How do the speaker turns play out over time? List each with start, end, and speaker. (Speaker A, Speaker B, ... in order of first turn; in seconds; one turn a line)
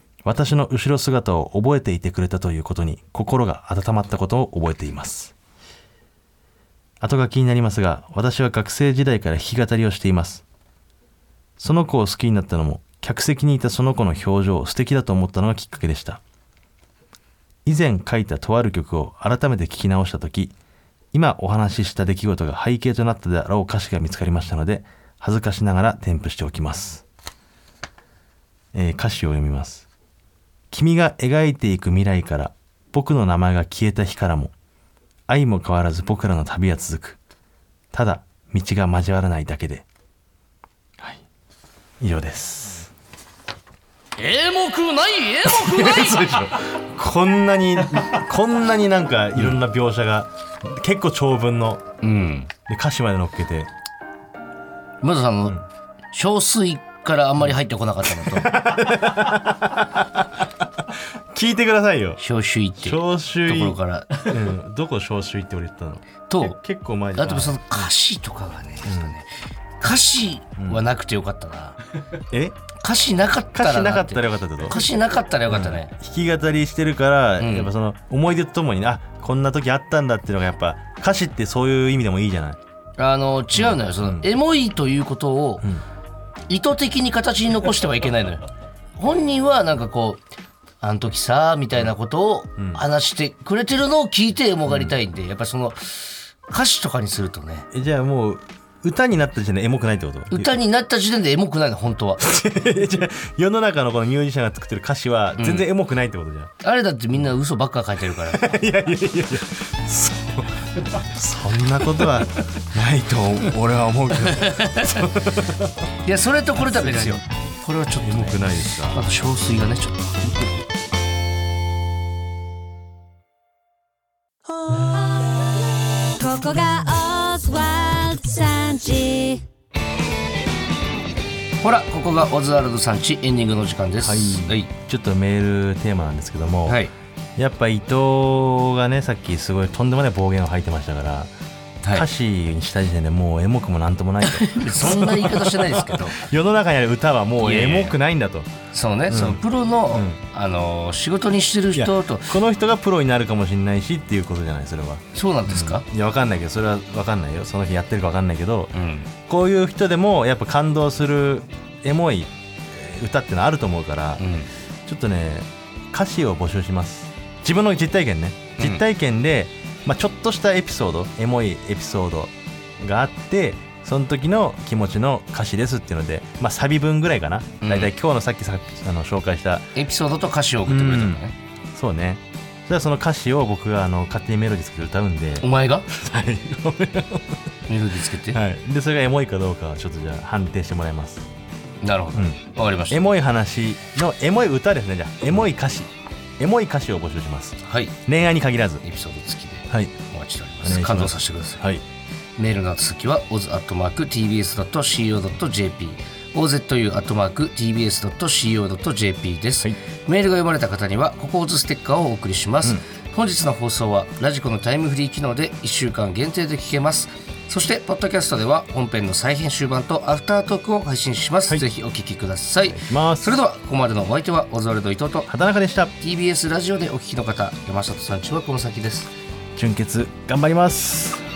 Speaker A: 0.2-5.3
Speaker A: 7.0-10.4
Speaker A: 11.6-16.2
Speaker A: 17.6-20.5
Speaker A: 21.1-27.0
Speaker A: 28.7-29.9
Speaker A: 30.7-34.5
Speaker A: 35.3-37.2
Speaker A: 37.9-39.9
Speaker A: 42.0-42.9
Speaker B: 44.2-46.5
Speaker A: 45.5-51.8
Speaker B: 52.0-52.5
Speaker A: 52.7-53.7
Speaker B: 55.0-55.6
Speaker B: 56.1-58.6
Speaker A: 58.2-60.3
Speaker A: 60.9-62.2
Speaker B: 62.2-64.3
Speaker A: 62.8-67.9
Speaker B: 66.3-66.6
Speaker B: 67.2-69.3
Speaker A: 68.8-69.1
Speaker B: 69.8-71.8
Speaker A: 70.6-70.8
Speaker A: 72.3-72.6
Speaker B: 72.8-75.9
Speaker A: 73.5-74.8
Speaker A: 75.5-82.6
Speaker B: 77.4-77.7
Speaker B: 83.0-85.7
Speaker A: 83.5-84.3
Speaker B: 86.5-90.2
Speaker B: 90.8-97.7
Speaker A: 94.7-94.9
Speaker A: 97.7-100.5
Speaker B: 100.3-102.2
Speaker A: 102.2-106.5
Speaker B: 105.4-105.7
Speaker B: 106.6-108.4
Speaker A: 108.2-115.8
Speaker B: 114.1-115.1
Speaker B: 116.0-120.2
Speaker A: 116.6-117.2
Speaker A: 118.0-119.1
Speaker C: 124.7-125.6
Speaker C: 126.2-129.4
Speaker B: 131.6-134.7
Speaker A: 134.0-136.8
Speaker B: 136.7-136.9
Speaker A: 137.4-141.3
Speaker A: 141.9-148.5
Speaker B: 144.3-146.2
Speaker B: 147.4-147.9
Speaker B: 148.7-152.3
Speaker A: 149.1-150.2
Speaker A: 151.8-158.7
Speaker B: 155.1-155.8
Speaker B: 158.7-159.1
Speaker A: 159.2-164.2
Speaker B: 164.2-164.5
Speaker A: 164.8-179.7
Speaker B: 168.6-168.8
Speaker B: 177.6-177.9
Speaker B: 179.7-181.3
Speaker A: 180.7-181.2
Speaker A: 181.7-187.4
Speaker B: 185.4-185.9
Speaker B: 187.7-188.4
Speaker A: 188.3-191.2
Speaker B: 191.8-193.1
Speaker A: 192.9-198.8
Speaker B: 197.6-197.9
Speaker B: 198.8-201.6
Speaker A: 199.7-199.9
Speaker A: 200.6-201.8
Speaker B: 202.4-225.3
Speaker A: 222.8-223.4
Speaker A: 225.3-225.9
Speaker B: 226.0-229.1
Speaker A: 229.5-231.2